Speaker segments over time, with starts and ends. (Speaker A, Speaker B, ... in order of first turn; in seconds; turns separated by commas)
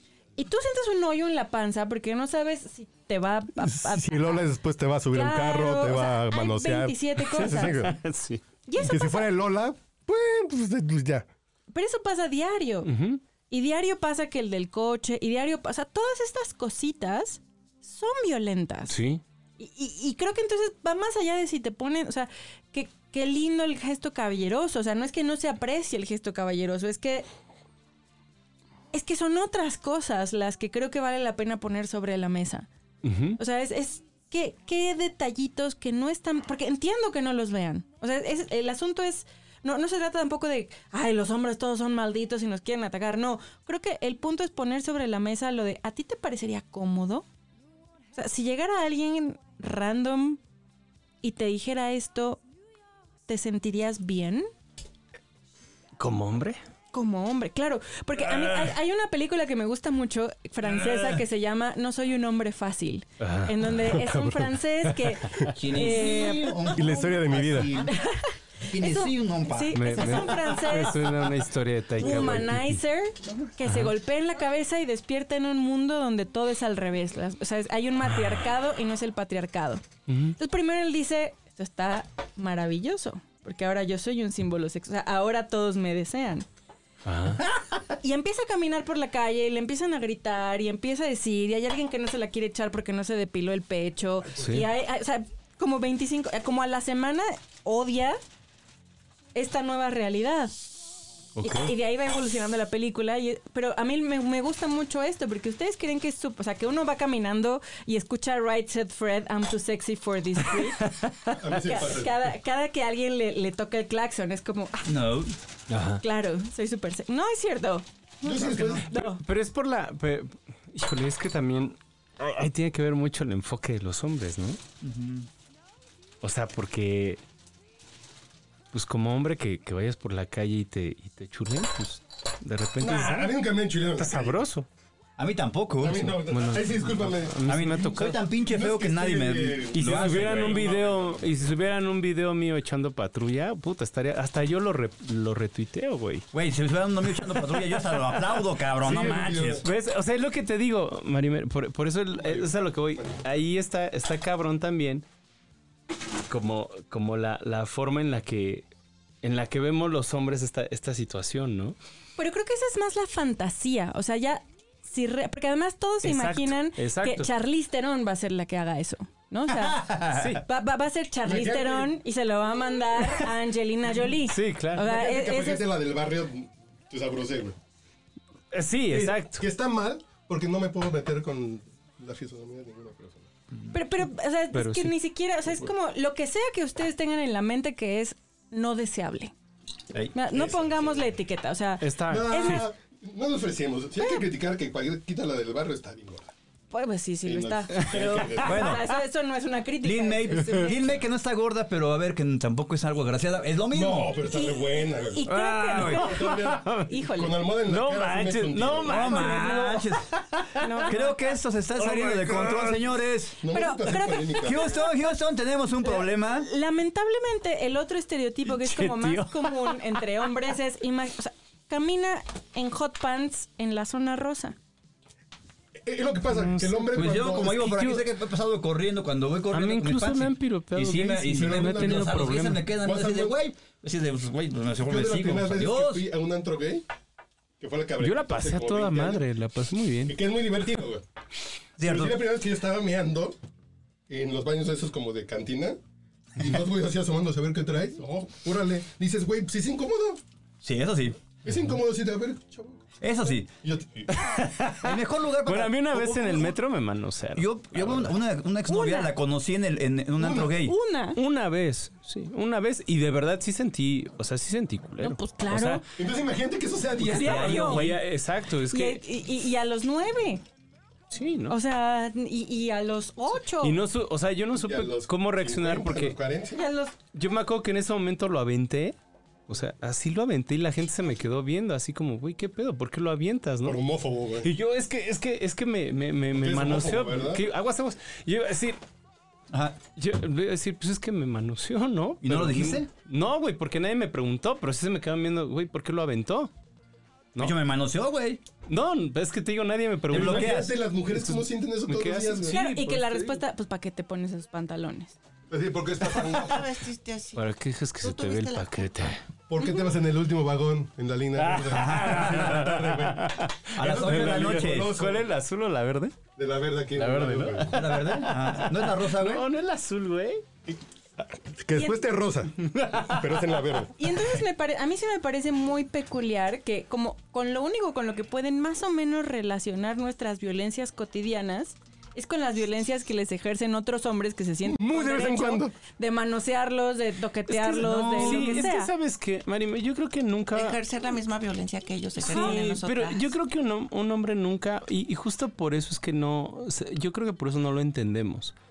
Speaker A: 0.4-4.4, Speaker B: 3.6-8.0, Speaker A: 5.1-7.9, Speaker C: 7.4-8.4, Speaker A: 8.7-9.3, Speaker B: 8.8-11.3, Speaker A: 11.7-12.9, Speaker C: 12.8-13.2, Speaker A: 13.5-19.0, Speaker C: 18.9-19.2, Speaker A: 19.6-27.3, Speaker A: 28.9-32.7, Speaker C: 33.0-33.4, Speaker A: 33.4-47.3, Speaker A: 48.1-50.4, Speaker A: 51.2-52.4, Speaker A: 53.3-54.5, Speaker C: 56.0-56.6, Speaker A: 56.9-66.7, Speaker D: 60.7-61.2, Speaker C: 63.2-63.6, Speaker B: 63.8-65.5, Speaker D: 65.5-68.0, Speaker B: 66.7-67.8, Speaker A: 67.8-71.1, Speaker D: 68.7-70.5, Speaker C: 69.7-72.8, Speaker A: 72.0-79.8, Speaker C: 73.7-73.9, Speaker C: 80.1-80.4, Speaker A: 80.4-86.5, Speaker C: 87.0-87.4, Speaker A: 88.0-98.2, Speaker C: 94.4-94.7, Speaker A: 99.3-100.7, Speaker C: 101.4-101.7, Speaker A: 101.4-110.9, Speaker C: 110.5-111.5, Speaker B: 111.4-112.1, Speaker A: 111.6-114.9, Speaker D: 114.8-115.3, Speaker C: 115.7-116.0, Speaker A: 116.0-119.2, Speaker B: 118.2-118.9, Speaker D: 118.3-118.9, Speaker C: 119.0-124.6, Speaker D: 124.8-125.3, Speaker C: 126.2-127.2, Speaker C: 128.7-133.3, Speaker B: 132.8-134.4, Speaker C: 134.0-134.7, Speaker D: 135.2-136.2, Speaker B: 135.8-137.4, Speaker C: 136.3-138.2, Speaker D: 137.4-140.8, Speaker B: 138.4-141.2, Speaker C: 139.7-146.3, Speaker D: 146.3-149.7, Speaker C: 147.3-155.1, Speaker B: 148.9-149.7, Speaker C: 156.3-158.7, Speaker C: 159.2-161.8, Speaker A: 162.2-169.9, Speaker C: 166.0-167.3, Speaker D: 169.5-170.4, Speaker C: 170.1-170.4, Speaker A: 170.4-175.7, Speaker B: 171.2-171.9, Speaker C: 174.2-174.9, Speaker B: 174.8-177.6, Speaker C: 178.5-179.4, Speaker B: 178.9-183.3, Speaker A: 183.7-189.3, Speaker C: 184.5-184.9, Speaker A: 190.1-192.7, Speaker B: 190.3-190.8, Speaker C: 191.8-192.7, Speaker B: 192.1-196.3, Speaker A: 196.7-201.0, Speaker B: 197.3-198.6, Speaker D: 198.4-198.9, Speaker D: 199.8-204.2, Speaker B: 203.7-205.3, Speaker A: 204.2-207.3, Speaker C: 205.3-206.9, Speaker D: 205.7-206.0, Speaker B: 205.9-209.2, Speaker C: 207.6-211.1, Speaker D: 208.6-210.2, Speaker A: 209.2-209.8, Speaker A: 210.5-211.2, Speaker D: 210.9-213.4, Speaker C: 211.8-212.8, Speaker B: 213.4-214.7, Speaker A: 213.5-214.9, Speaker D: 214.4-216.5, Speaker A: 215.8-224.6, Speaker C: 218.5-220.4, Speaker B: 225.8-227.6, Speaker C: 226.3-228.1, Speaker D: 226.9-236.1, Speaker C: 229.5-232.7, Speaker B: 231.2-233.4, Speaker B: 234.8-236.8, Speaker B: 237.6-239.2, Speaker C: 238.0-240.2, Speaker B: 240.1-241.1, Speaker D: 241.8-242.2, Speaker B: 241.8-243.4, Speaker B: 244.1-245.8, Speaker B: 246.4-250.2, Speaker D: 250.6-251.2, Speaker B: 251.4-254.2, Speaker D: 253.0-253.5, Speaker C: 254.1-258.1, Speaker D: 254.8-256.6, Speaker D: 257.4-260.8, Speaker A: 258.7-259.1, Speaker B: 260.2-260.6, Speaker A: 260.6-261.2, Speaker C: 261.1-265.8, Speaker A: 265.0-265.8, Speaker B: 265.9-267.8, Speaker D: 267.0-268.0, Speaker C: 267.1-269.0, Speaker A: 267.2-267.9, Speaker A: 268.7-270.4, Speaker C: 271.1-271.6, Speaker A: 271.5-273.8, Speaker C: 273.6-276.2, Speaker B: 274.6-276.6, Speaker A: 276.6-276.9, Speaker C: 277.0-279.0, Speaker C: 279.5-283.8, Speaker B: 283.6-284.5, Speaker C: 284.4-288.8, Speaker B: 286.4-287.4, Speaker D: 289.5-289.8, Speaker C: 290.0-296.5, Speaker D: 292.2-292.9, Speaker D: 297.4-298.4, Speaker C: 298.7-300.6, Speaker D: 300.1-300.8, Speaker B: 300.1-302.6, Speaker C: 301.1-303.4, Speaker A: 302.4-305.2, Speaker B: 305.5-306.8, Speaker E: 306.1-308.8, Speaker C: 307.4-309.2, Speaker B: 309.5-315.3, Speaker C: 311.4-316.2, Speaker D: 311.7-312.6, Speaker D: 313.8-315.0, Speaker B: 316.4-317.8, Speaker C: 317.0-320.4, Speaker D: 317.7-319.4, Speaker B: 321.5-323.9, Speaker A: 321.8-322.0, Speaker C: 322.6-323.4, Speaker A: 323.9-338.9, Speaker B: 334.6-335.7, Speaker C: 337.5-340.8, Speaker D: 337.8-338.6, Speaker E: 340.5-343.3, Speaker A: 342.2-342.8, Speaker C: 342.2-348.6